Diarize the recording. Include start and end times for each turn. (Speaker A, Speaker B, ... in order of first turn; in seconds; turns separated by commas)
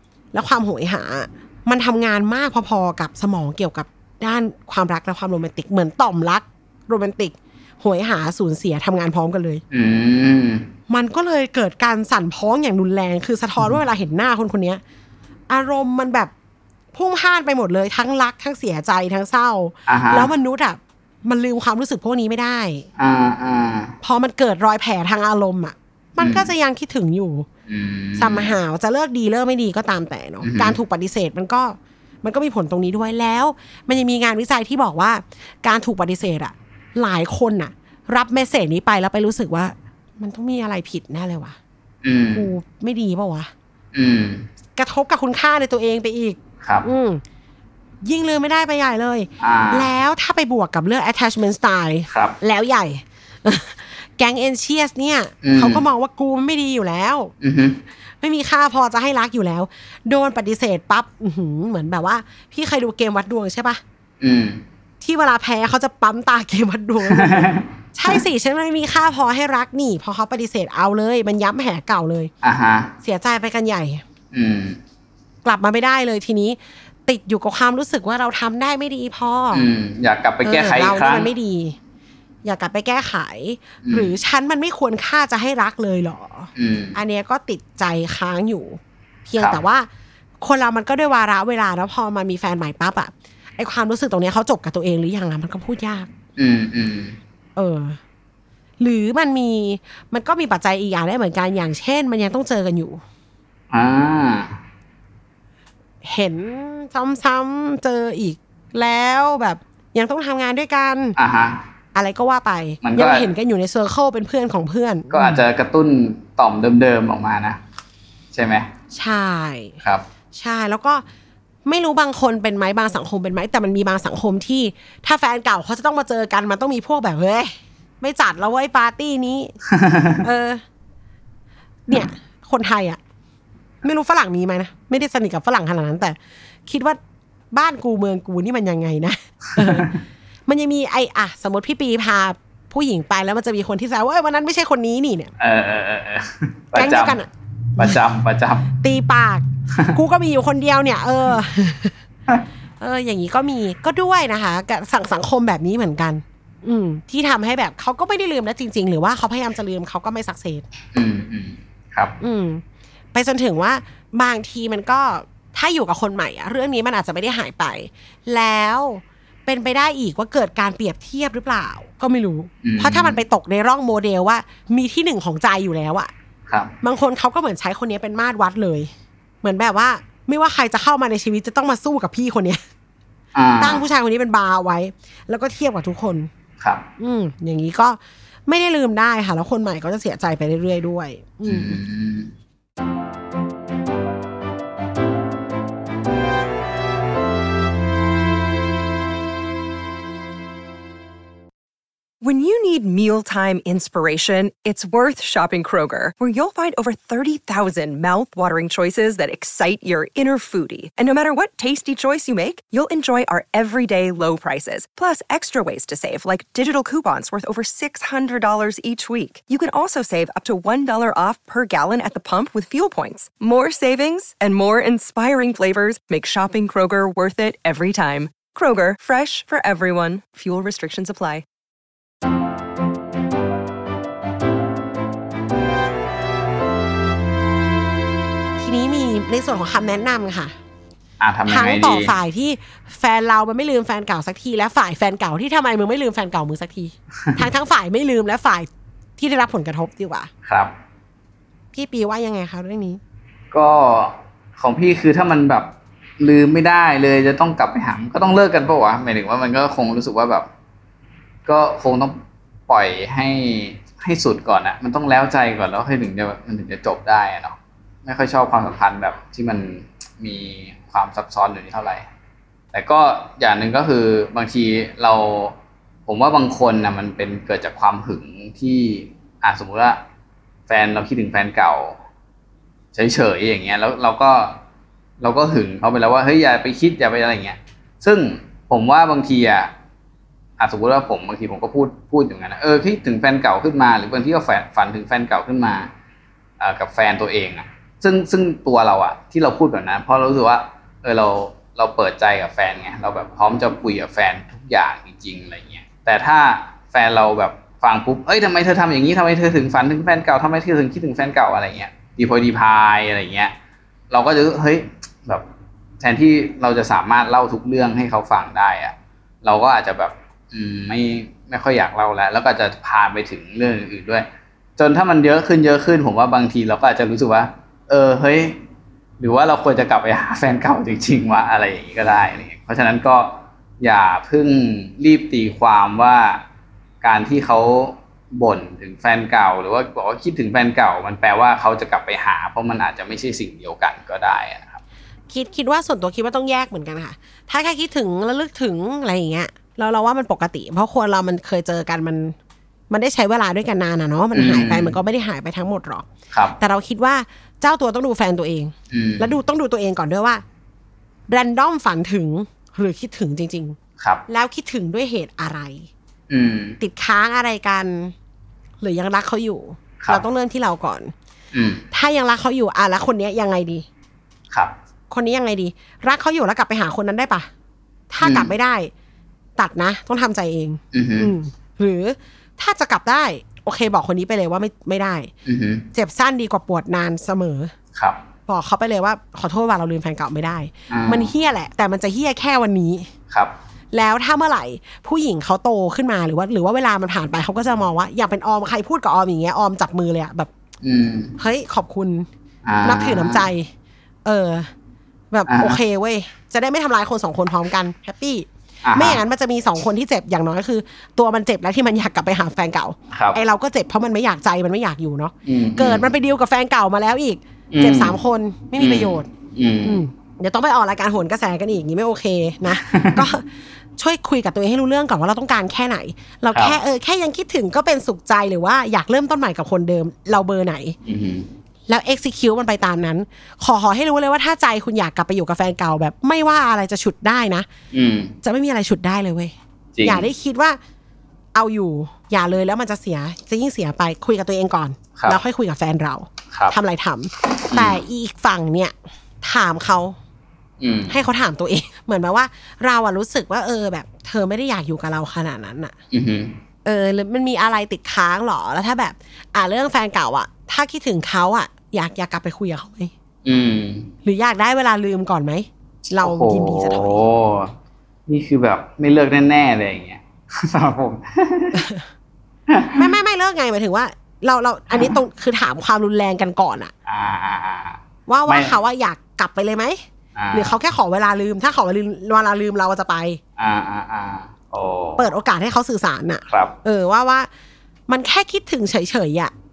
Speaker A: 0.3-9.6, Speaker B: 9.7-10.6, Speaker A: 10.9-14.8, Speaker A: 15.5-16.3, Speaker A: 16.9-22.9, Speaker B: 19.9-20.3, Speaker B: 23.0-23.9, Speaker A: 24.0-27.5, Speaker B: 26.2-26.5, Speaker B: 27.7-28.5, Speaker A: 28.1-41.6, Speaker B: 30.4-30.8, Speaker B: 42.0-42.5, Speaker A: 42.3-43.5, Speaker B: 43.9-44.5, Speaker A: 44.8-47.2, Speaker A: 48.0-57.3, Speaker B: 49.4-49.9, Speaker B: 55.4-55.8, Speaker B: 57.4-57.8, Speaker A: 58.2-63.8, Speaker B: 64.2-64.6, Speaker A: 65.0-72.3, Speaker B: 67.1-68.2, Speaker B: 72.4-72.9, Speaker A: 73.0-74.0, Speaker B: 74.3-74.8, Speaker A: 75.4-79.7, Speaker B: 79.5-81.3, Speaker A: 80.4-81.8, Speaker A: 82.4-89.9, Speaker B: 83.8-84.2, Speaker B: 86.5-87.0, Speaker A: 90.4-96.1, Speaker B: 96.4-97.2, Speaker A: 97.5-98.0, Speaker A: 98.8-103.0, Speaker B: 103.7-104.5, Speaker A: 106.0-111.2, Speaker B: 111.2-111.6, Speaker A: 111.9-115.4, Speaker B: 112.8-113.3, Speaker B: 115.1-117.6, Speaker B: 118.3-118.7, Speaker A: 118.9-119.8, Speaker A: 120.3-121.0, Speaker A: 121.6-129.6, Speaker B: 129.8-130.2, Speaker A: 130.2-130.6, Speaker A: 131.9-133.0, Speaker A: 133.8-137.0, Speaker A: 137.5-139.9, Speaker A: 140.5-145.3, Speaker B: 145.4-147.2, Speaker A: 146.7-148.0, Speaker B: 147.8-148.7, Speaker A: 148.8-151.9, Speaker A: 152.8-160.7, Speaker B: 160.9-162.1, Speaker A: 162.2-162.6, Speaker A: 163.1-176.1, Speaker B: 172.6-173.2, Speaker A: 176.8-178.9, Speaker A: 179.4-182.6, Speaker B: 183.3-183.8, Speaker A: 183.6-186.3, Speaker A: 187.0-191.8, Speaker B: 191.4-192.3, Speaker C: 202.2-231.4, Speaker A: 238.6-240.5, Speaker B: 241.2-242.1, Speaker A: 241.5-250.3, Speaker B: 250.4-250.7, Speaker A: 251.7-253.0, Speaker B: 253.5-260.5, Speaker B: 261.4-272.1, Speaker B: 272.7-275.6, Speaker B: 276.1-280.0, Speaker B: 280.7-282.0, Speaker B: 282.9-284.6, Speaker B: 285.2-289.7, Speaker B: 290.6-295.9, Speaker B: 296.6-313.5, Speaker B: 314.1-315.5, Speaker B: 316.0-328.6, Speaker B: 329.2-336.4, Speaker B: 337.0-344.8, Speaker A: 345.3-352.3, Speaker A: 352.9-356.1, Speaker B: 354.3-354.9, Speaker A: 356.6-360.4, Speaker B: 358.9-359.4, Speaker A: 361.3-365.9, Speaker B: 366.3-366.8, Speaker A: 366.8-368.1, Speaker A: 368.8-371.1, Speaker B: 371.5-371.8, Speaker A: 371.9-373.9, Speaker A: 375.1-377.5, Speaker A: 378.1-378.9, Speaker B: 378.2-378.5, Speaker A: 379.6-385.3, Speaker B: 380.9-381.3, Speaker B: 385.4-385.8, Speaker A: 385.9-387.7, Speaker A: 388.5-393.1, Speaker B: 390.9-391.3, Speaker A: 393.9-400.5, Speaker B: 400.8-401.3, Speaker A: 401.4-402.3, Speaker B: 402.6-403.4, Speaker A: 402.8-403.7, Speaker A: 404.2-404.7, Speaker A: 405.3-419.3, Speaker B: 405.5-405.8, Speaker B: 408.8-409.2, Speaker B: 413.1-413.4, Speaker B: 415.5-416.1, Speaker B: 417.7-418.2, Speaker B: 418.8-420.0, Speaker A: 419.8-423.4, Speaker B: 422.7-423.3, Speaker A: 424.0-430.9, Speaker B: 426.5-426.8, Speaker B: 431.1-431.5, Speaker A: 431.9-437.7, Speaker B: 437.9-438.3, Speaker A: 438.4-440.8, Speaker B: 439.9-440.3, Speaker A: 441.5-450.2, Speaker B: 447.7-448.0, Speaker B: 450.8-451.1, Speaker A: 451.1-455.9, Speaker B: 456.1-456.6, Speaker A: 456.8-463.1, Speaker B: 463.4-464.1, Speaker A: 464.2-467.2, Speaker B: 466.1-467.7, Speaker B: 468.3-471.9, Speaker B: 472.7-473.1, Speaker A: 472.9-476.9, Speaker B: 477.1-478.8, Speaker A: 478.3-480.0, Speaker B: 480.4-480.8, Speaker A: 480.5-483.4, Speaker B: 483.6-485.3, Speaker A: 485.2-487.5, Speaker B: 486.5-486.7, Speaker A: 488.1-489.5